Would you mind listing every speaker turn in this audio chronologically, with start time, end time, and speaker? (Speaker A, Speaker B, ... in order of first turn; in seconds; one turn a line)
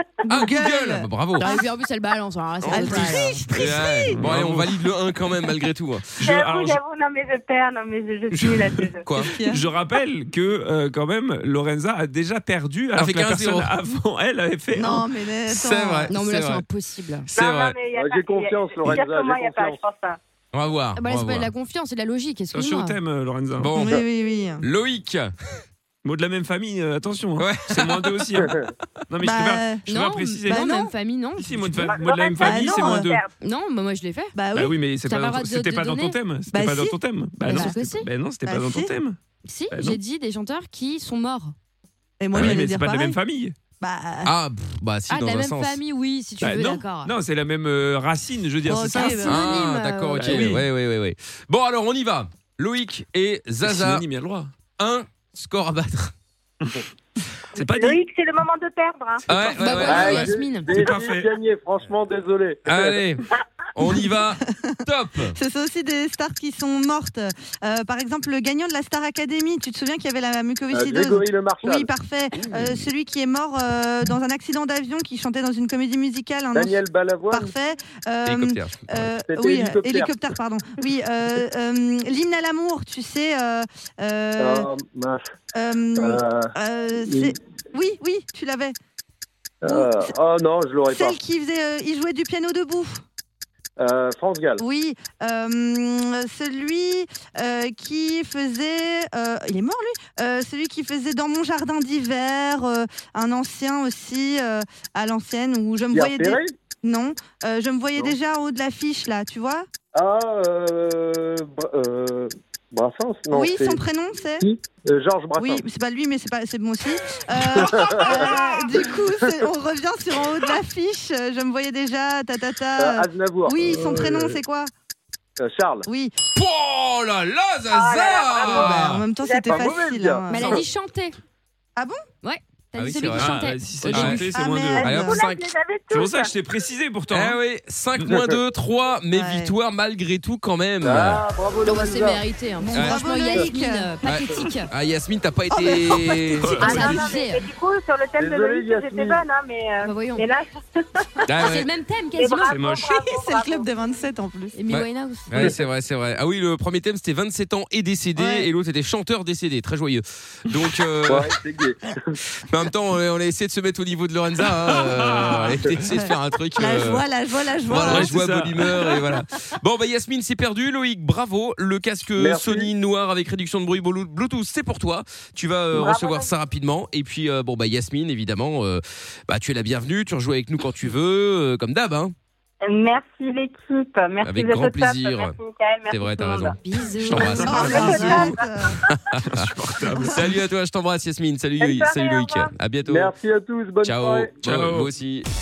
Speaker A: 0.3-1.7
Speaker B: 0.3-1.5
Speaker C: 1.4-3.5
Speaker B: 2.6-6.2
Speaker A: 2.7-4.2
Speaker D: 3.6-4.8
Speaker D: 6.2-6.8
Speaker E: 6.2-9.1
Speaker D: 8.3-15.1
Speaker B: 9.0-9.3
Speaker A: 9.2-9.7
Speaker B: 12.9-13.7
Speaker A: 14.7-16.1
Speaker B: 15.5-16.6
Speaker C: 16.1-17.3
Speaker B: 17.3-17.8
Speaker E: 17.4-20.2
Speaker F: 17.9-19.8
Speaker B: 20.5-21.5
Speaker C: 21.0-23.0
Speaker D: 22.5-23.8
Speaker B: 23.6-24.1
Speaker A: 23.8-24.6
Speaker B: 24.6-25.3
Speaker D: 26.0-28.6
Speaker B: 27.4-28.2
Speaker F: 28.4-28.7
Speaker D: 29.1-30.6
Speaker A: 29.2-29.9
Speaker C: 29.9-31.7
Speaker A: 30.5-30.9
Speaker D: 31.4-33.2
Speaker E: 31.6-33.3
Speaker A: 32.4-33.1
Speaker C: 33.4-34.4
Speaker A: 34.4-34.8
Speaker D: 34.5-39.2
Speaker C: 35.0-36.2
Speaker A: 36.5-37.8
Speaker C: 37.5-38.1
Speaker A: 38.5-39.0
Speaker C: 39.4-41.5
Speaker D: 39.7-40.0
Speaker A: 42.2-43.2
Speaker D: 42.4-43.6
Speaker A: 43.8-44.3
Speaker B: 44.2-45.8
Speaker C: 45.1-47.2
Speaker D: 46.4-49.2
Speaker A: 48.6-49.4
Speaker C: 48.9-50.5
Speaker B: 49.3-54.1
Speaker D: 50.1-50.6
Speaker D: 53.6-54.5
Speaker B: 54.8-56.1
Speaker D: 57.5-58.0
Speaker E: 57.7-59.2
Speaker B: 59.3-60.1
Speaker D: 59.3-61.3
Speaker C: 59.6-60.7
Speaker F: 59.8-63.1
Speaker B: 62.7-63.2
Speaker B: 63.8-65.4
Speaker A: 64.5-84.7
Speaker F: 70.7-71.9
Speaker B: 72.3-72.9
Speaker F: 76.5-77.5
Speaker B: 78.2-79.1
Speaker F: 79.3-80.2
Speaker F: 84.4-85.3
Speaker A: 85.5-88.8
Speaker F: 86.0-87.3
Speaker F: 89.6-91.2
Speaker A: 89.7-90.1
Speaker A: 90.9-93.0
Speaker F: 93.8-94.6
Speaker A: 94.6-109.7
Speaker F: 105.9-106.6
Speaker F: 109.9-113.8
Speaker A: 113.3-114.5
Speaker F: 114.4-115.7
Speaker A: 115.4-124.7
Speaker F: 117.4-119.4
Speaker F: 122.8-124.4
Speaker F: 125.4-125.9
Speaker A: 125.9-126.1
Speaker B: 126.3-129.1
Speaker E: 127.7-129.6
Speaker A: 128.5-130.6
Speaker F: 129.5-130.7
Speaker C: 130.3-131.2
Speaker C: 132.2-134.2
Speaker B: 132.8-133.3
Speaker D: 133.1-135.2
Speaker B: 133.9-134.2
Speaker A: 134.1-135.2
Speaker E: 134.8-136.3
Speaker B: 134.9-135.4
Speaker D: 135.9-137.4
Speaker B: 137.1-141.2
Speaker A: 139.1-139.6
Speaker F: 140.8-142.2
Speaker C: 141.6-144.7
Speaker A: 142.6-143.9
Speaker B: 144.1-146.5
Speaker A: 145.7-146.0
Speaker D: 146.4-147.1
Speaker C: 146.5-147.5
Speaker E: 146.5-151.2
Speaker F: 148.2-149.2
Speaker C: 149.8-150.3
Speaker B: 151.3-151.7
Speaker C: 151.4-152.6
Speaker E: 152.2-153.7
Speaker D: 152.5-152.9
Speaker A: 152.9-154.5
Speaker C: 154.5-155.5
Speaker B: 154.7-161.3
Speaker A: 158.2-158.5
Speaker F: 161.1-162.2
Speaker B: 162.5-167.0
Speaker D: 164.6-165.6
Speaker A: 165.9-168.2
Speaker B: 167.7-182.1
Speaker D: 167.7-169.0
Speaker F: 172.2-172.7
Speaker E: 175.7-176.3
Speaker E: 182.6-186.6
Speaker B: 184.2-185.4
Speaker B: 185.9-187.7
Speaker C: 186.5-187.9
Speaker D: 187.0-188.4
Speaker A: 187.4-188.8
Speaker E: 187.7-188.7
Speaker B: 188.9-189.4
Speaker D: 189.2-190.4
Speaker A: 189.9-190.2
Speaker B: 190.1-193.2
Speaker E: 191.6-192.5
Speaker F: 192.8-194.4
Speaker B: 193.8-195.3
Speaker D: 194.4-194.9